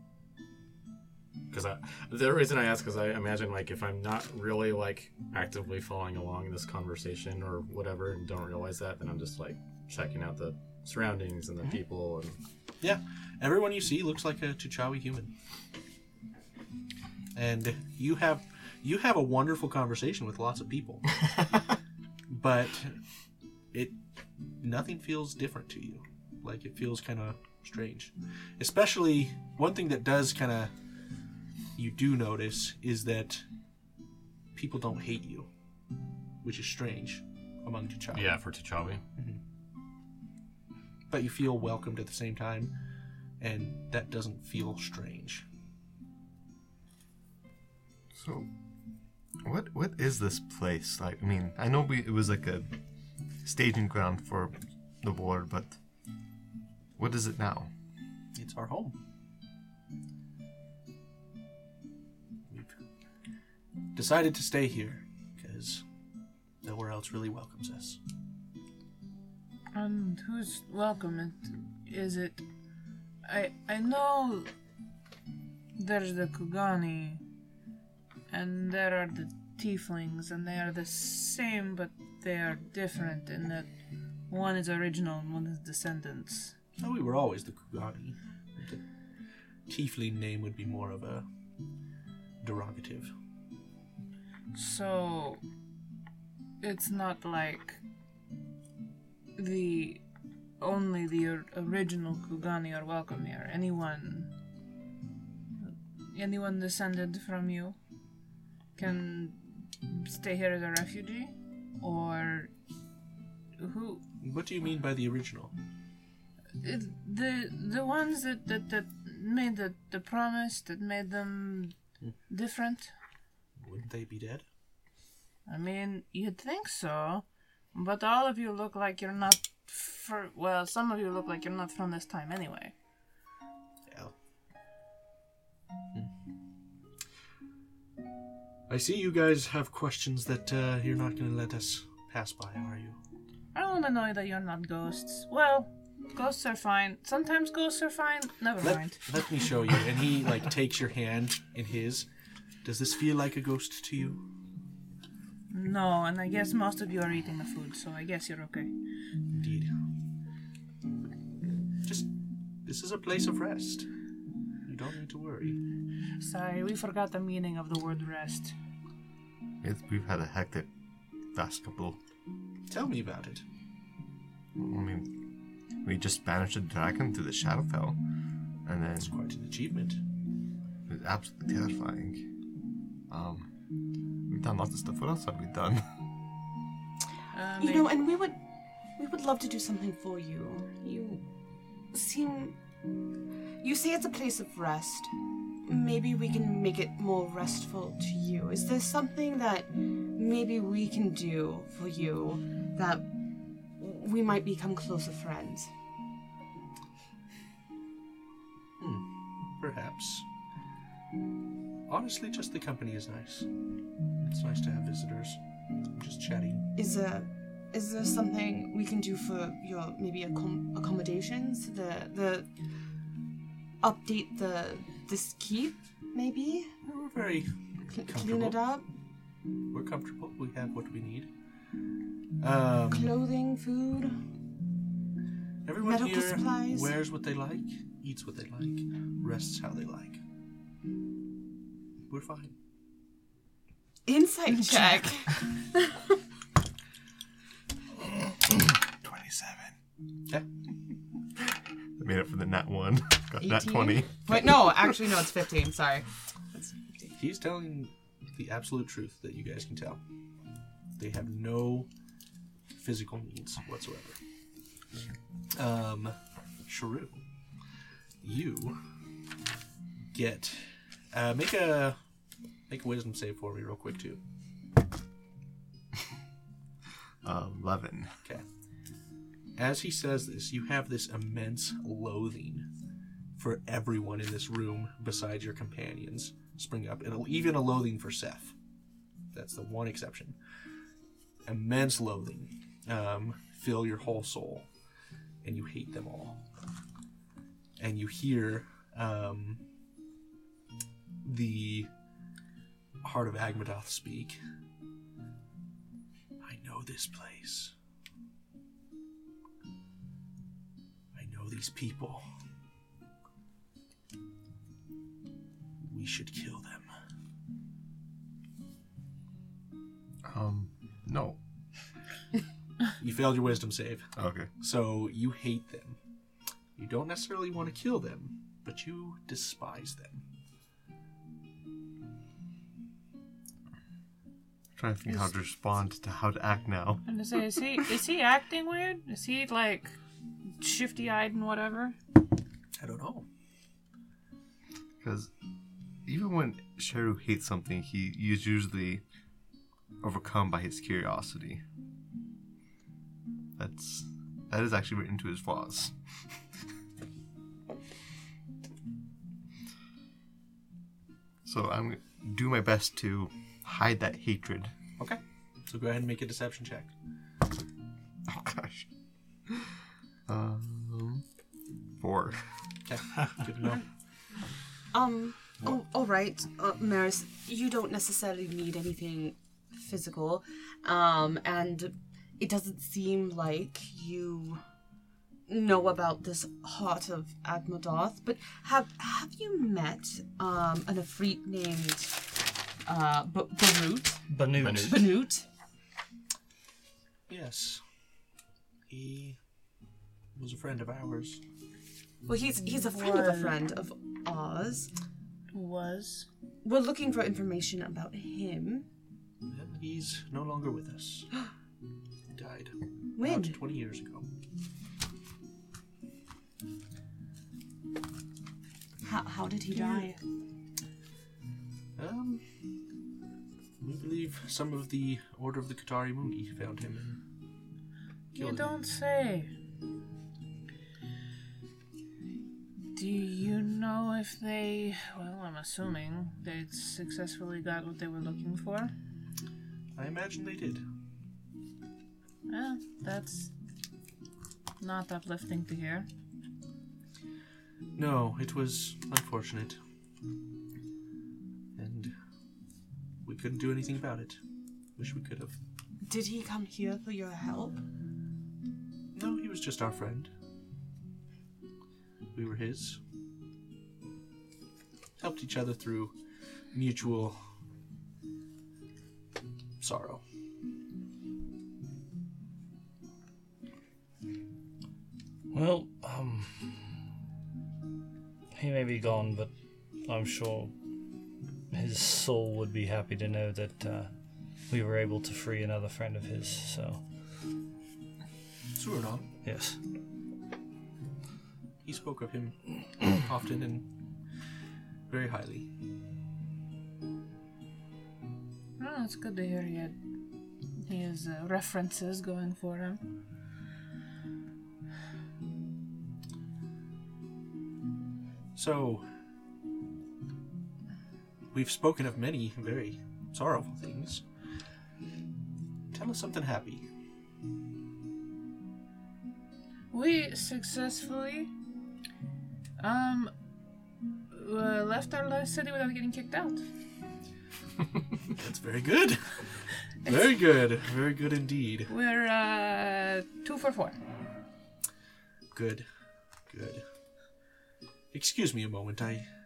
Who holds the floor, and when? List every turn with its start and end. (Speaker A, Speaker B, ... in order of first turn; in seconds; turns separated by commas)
Speaker A: 1.5-12.4, Speaker B: 12.8-15.3, Speaker B: 17.3-21.2, Speaker B: 22.3-23.0, Speaker B: 24.6-30.7, Speaker B: 31.8-33.5, Speaker B: 34.5-35.5, Speaker B: 36.4-38.4, Speaker A: 38.1-39.0, Speaker B: 41.1-42.7, Speaker B: 43.4-45.4, Speaker C: 48.1-48.5, Speaker C: 49.4-52.7, Speaker C: 53.4-55.7, Speaker C: 57.0-57.7, Speaker B: 58.3-59.0, Speaker B: 62.5-62.8, Speaker B: 63.9-65.8, Speaker B: 66.6-68.0, Speaker D: 69.7-72.4, Speaker D: 73.2-74.5, Speaker D: 75.8-77.2, Speaker D: 78.3-83.7, Speaker D: 84.3-86.5, Speaker B: 86.8-88.8, Speaker B: 89.7-91.2, Speaker B: 92.4-93.1, Speaker D: 94.5-95.4, Speaker D: 96.6-97.8, Speaker D: 99.3-100.0, Speaker D: 100.6-104.3, Speaker D: 105.6-107.8, Speaker D: 108.8-112.5, Speaker D: 113.6-114.0, Speaker B: 114.2-115.5, Speaker D: 116.6-121.7, Speaker D: 122.3-122.9, Speaker B: 123.6-124.4, Speaker D: 125.5-132.7, Speaker B: 133.9-134.1, Speaker B: 138.7-143.0, Speaker D: 143.5-149.0, Speaker B: 148.6-152.1, Speaker B: 152.6-154.2, Speaker D: 155.5-158.7, Speaker B: 159.3-159.7, Speaker B: 161.8-162.1, Speaker B: 162.6-163.9, Speaker B: 164.7-165.6, Speaker D: 166.2-168.5, Speaker C: 169.6-170.7, Speaker C: 171.3-172.0, Speaker B: 172.7-173.4, Speaker C: 174.6-175.1, Speaker C: 175.8-178.0, Speaker C: 178.7-179.1, Speaker B: 179.0-180.0, Speaker C: 180.9-182.2, Speaker C: 183.1-183.5, Speaker C: 184.3-185.8, Speaker D: 187.3-188.0, Speaker E: 187.6-188.3, Speaker E: 189.0-191.2, Speaker E: 191.9-192.6, Speaker E: 193.6-195.1, Speaker E: 195.6-203.1, Speaker E: 203.8-205.7, Speaker B: 208.8-210.2, Speaker B: 211.9-213.5, Speaker B: 214.2-215.4, Speaker B: 215.9-216.7, Speaker E: 216.7-222.5, Speaker E: 223.8-226.7, Speaker B: 226.8-228.6, Speaker E: 227.9-228.8, Speaker B: 229.7-231.3, Speaker B: 232.4-233.1, Speaker E: 232.9-234.2, Speaker B: 235.6-240.2, Speaker E: 235.8-236.9, Speaker B: 242.1-242.5, Speaker E: 244.1-246.2, Speaker C: 249.0-249.7, Speaker C: 252.0-254.9, Speaker E: 253.4-257.1, Speaker B: 257.1-260.0, Speaker B: 261.0-261.9, Speaker B: 262.8-264.2, Speaker B: 265.5-266.1, Speaker B: 266.7-267.2, Speaker B: 268.2-268.8, Speaker B: 270.1-272.0, Speaker B: 272.7-274.2, Speaker C: 277.2-278.1, Speaker B: 279.6-282.7, Speaker B: 283.4-288.5, Speaker B: 289.3-290.4, Speaker B: 291.4-294.7, Speaker B: 295.4-296.4, Speaker B: 297.8-299.6, Speaker B: 301.2-301.9, Speaker B: 303.0-304.4, Speaker B: 306.4-307.7, Speaker B: 311.1-312.2, Speaker B: 315.8-316.9, Speaker C: 320.2-321.4, Speaker B: 323.0-326.0, Speaker C: 324.1-324.5, Speaker B: 326.8-330.2, Speaker C: 334.8-337.0, Speaker D: 337.0-339.9, Speaker D: 340.6-341.9, Speaker B: 342.8-343.2, Speaker C: 345.0-345.3, Speaker C: 346.1-349.0, Speaker C: 350.0-351.6, Speaker C: 353.6-355.9, Speaker C: 361.4-364.7, Speaker B: 365.0-366.9, Speaker C: 368.2-368.9, Speaker C: 370.3-371.2, Speaker C: 372.0-372.4, Speaker B: 372.9-373.8, Speaker E: 374.9-384.6, Speaker E: 385.5-392.2, Speaker E: 392.9-395.4, Speaker F: 394.3-395.1, Speaker A: 394.6-395.1, Speaker B: 397.3-397.8, Speaker B: 398.9-399.4, Speaker B: 400.3-401.4, Speaker E: 402.2-404.9, Speaker D: 402.6-403.6, Speaker D: 405.5-406.3, Speaker E: 406.6-408.9, Speaker B: 409.5-411.3, Speaker B: 412.3-414.2, Speaker E: 413.1-413.6, Speaker E: 419.0-420.1, Speaker D: 419.7-420.1, Speaker B: 422.0-422.4, Speaker B: 423.8-427.2, Speaker B: 428.3-428.7, Speaker D: 428.4-429.5, Speaker D: 432.9-438.9, Speaker B: 440.0-440.8, Speaker D: 442.5-443.5, Speaker D: 444.8-446.1, Speaker B: 448.0-449.8, Speaker B: 451.8-452.1, Speaker B: 453.2-454.4, Speaker B: 454.9-455.5, Speaker E: 456.1-457.8, Speaker B: 459.1-460.3, Speaker B: 462.3-463.0, Speaker B: 465.2-466.1, Speaker B: 466.7-467.4, Speaker B: 469.8-470.2, Speaker F: 475.5-476.8, Speaker F: 478.5-479.5, Speaker F: 480.1-480.7, Speaker F: 481.7-484.1, Speaker F: 484.7-487.0, Speaker B: 488.7-489.3, Speaker F: 489.4-489.8, Speaker B: 491.8-493.9, Speaker B: 495.1-495.7, Speaker D: 498.8-499.9, Speaker D: 500.9-503.0, Speaker B: 508.5-509.1, Speaker B: 511.5-514.2, Speaker B: 515.9-516.8, Speaker D: 519.9-521.5, Speaker D: 522.8-523.3, Speaker D: 524.3-526.6, Speaker B: 528.3-529.2, Speaker B: 530.0-531.9, Speaker D: 531.9-534.0, Speaker B: 535.5-535.9, Speaker B: 536.5-536.8, Speaker B: 538.1-539.3